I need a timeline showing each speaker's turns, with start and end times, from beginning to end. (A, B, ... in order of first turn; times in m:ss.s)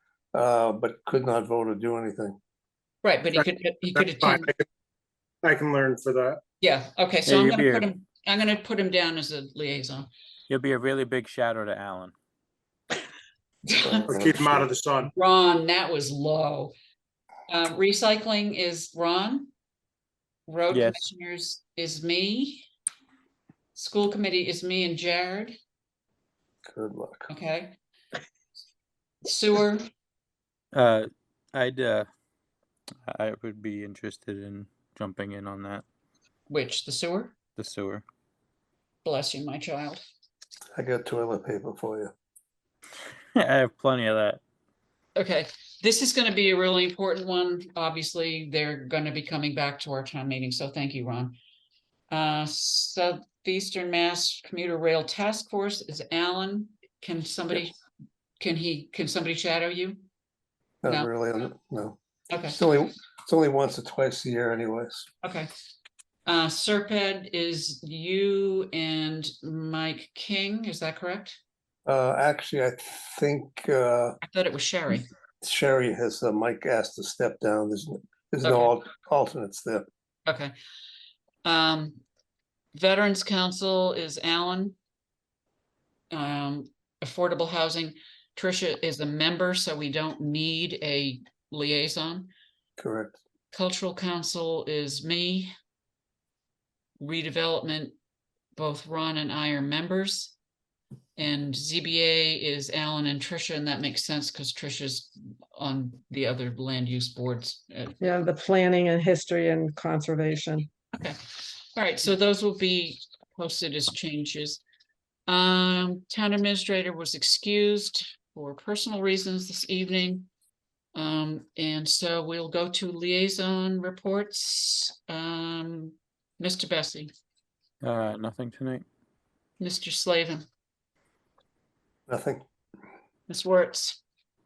0:00.3-0:02.4 A
0:03.0-0:04.5 B
0:04.0-0:04.6 C
0:05.4-0:06.4 C
0:06.6-0:10.1 B
0:07.2-0:07.9 D
0:10.5-0:12.1 D
0:13.7-0:14.0 B
0:13.8-0:14.7 A
0:14.1-0:15.1 C
0:15.1-0:16.7 B
0:17.5-0:19.5 B
0:20.5-0:22.7 B
0:20.7-0:21.0 D
0:23.8-0:25.6 B
0:26.7-0:27.3 A
0:27.3-0:27.8 B
0:29.2-0:29.9 B
0:30.7-0:32.1 D
0:33.1-0:35.8 D
0:36.5-0:37.4 B
0:37.6-0:38.0 D
0:39.0-0:40.0 B
0:40.8-0:42.1 A
0:43.4-0:44.4 D
0:45.2-0:51.4 B
0:52.1-0:57.8 B
0:58.4-1:00.0 B
1:00.8-1:02.0 A
1:02.3-1:02.6 B
1:02.5-1:05.1 A
1:05.2-1:05.5 B
1:06.3-1:11.4 B
1:11.9-1:14.2 A
1:14.2-1:15.1 B
1:15.4-1:19.9 A
1:18.4-1:18.7 B
1:20.3-1:20.5 B
1:21.4-1:22.0 B
1:22.7-1:24.8 B
1:26.1-1:32.3 B
1:32.8-1:33.2 A
1:33.5-1:35.5 B
1:37.0-1:38.0 B
1:38.6-1:40.4 B
1:41.2-1:48.0 B
1:48.0-1:50.7 E
1:51.0-1:54.6 B
1:55.3-2:00.3 B
2:01.0-2:07.1 B
2:07.8-2:08.8 D
2:09.6-2:10.4 B
2:12.1-2:12.4 A
2:13.3-2:14.0 B